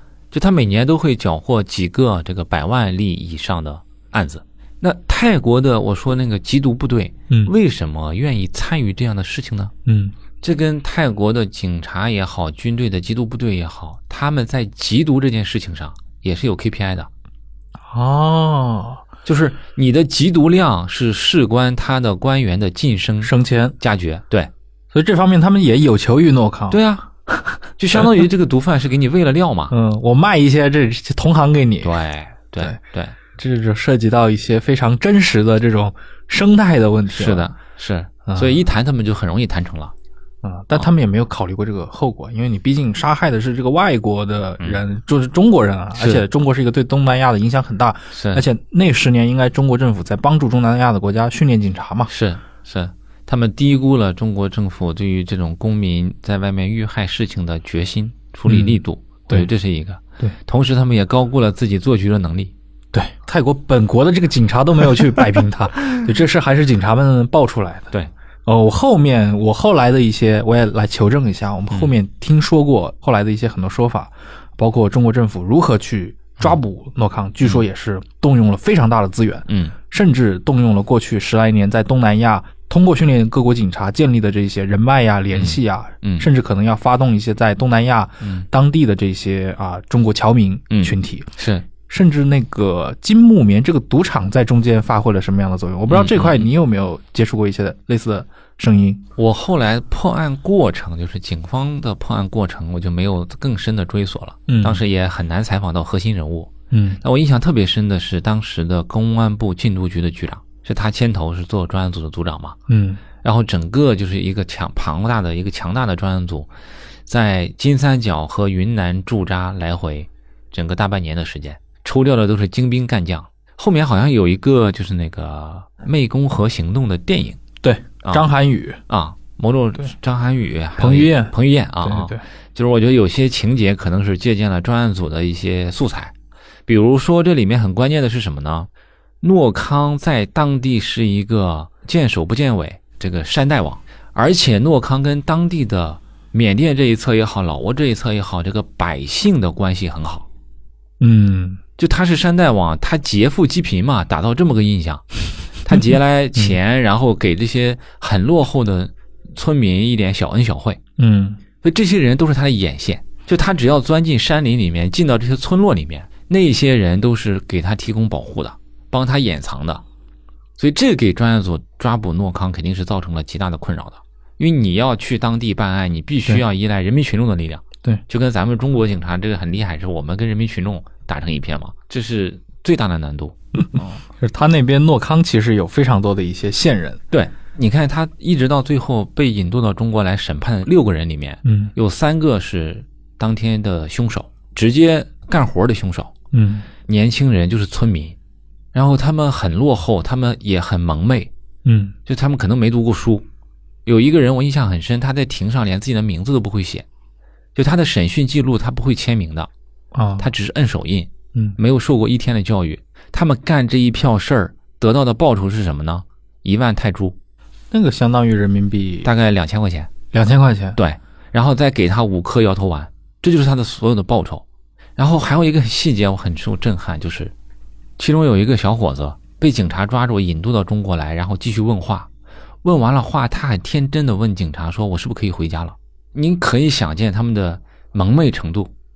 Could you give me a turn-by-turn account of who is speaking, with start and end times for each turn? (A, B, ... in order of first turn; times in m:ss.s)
0:00.3-0:09.7 A
0:09.8-0:10.1 B
0:10.4-0:17.1 A
0:17.9-0:19.0 B
0:19.2-0:24.5 A
0:23.2-0:23.8 B
0:24.9-0:28.1 B
0:26.7-0:27.1 A
0:27.8-0:29.7 A
0:29.7-0:32.0 B
0:31.8-0:33.1 A
0:33.4-0:37.5 B
0:37.1-0:39.9 A
0:38.2-0:38.6 B
0:40.4-0:52.1 B
0:46.0-0:46.2 A
0:48.1-0:48.4 A
0:52.1-1:02.5 A
0:58.5-0:59.5 B
1:02.9-1:07.9 B
1:08.4-1:31.3 B
1:19.5-1:19.7 A
1:25.3-1:26.3 A
1:30.7-1:31.6 A
1:31.9-1:39.0 B
1:35.9-1:36.5 A
1:39.2-1:52.6 A
1:44.5-1:44.8 B
1:46.7-1:47.0 B
1:52.7-1:53.0 B
1:53.2-1:56.5 A
1:57.1-2:07.4 A
2:07.6-2:08.8 B
2:08.9-2:16.1 A
2:10.8-2:12.2 B
2:16.7-2:18.7 A
2:19.2-2:30.2 A
2:31.0-2:31.6 B
2:31.8-2:35.0 A
2:35.6-2:40.8 A
2:41.0-2:41.4 B
2:41.6-2:49.8 A
2:50.6-3:04.0 A
3:04.2-3:07.0 B
3:07.1-3:16.1 A
3:11.4-3:11.7 B
3:16.3-3:16.7 B
3:16.8-3:18.2 A
3:18.7-3:21.3 A
3:21.6-3:21.9 B
3:22.1-3:23.2 A
3:23.8-3:26.8 A
3:27.5-3:29.5 A
3:29.9-3:30.3 B
3:30.2-3:37.2 A
3:37.7-3:39.1 B
3:39.0-3:39.9 A
3:40.1-3:40.8 B
3:40.8-3:44.4 A
3:45.0-3:47.3 A
3:48.0-3:52.1 A
3:52.6-3:58.7 A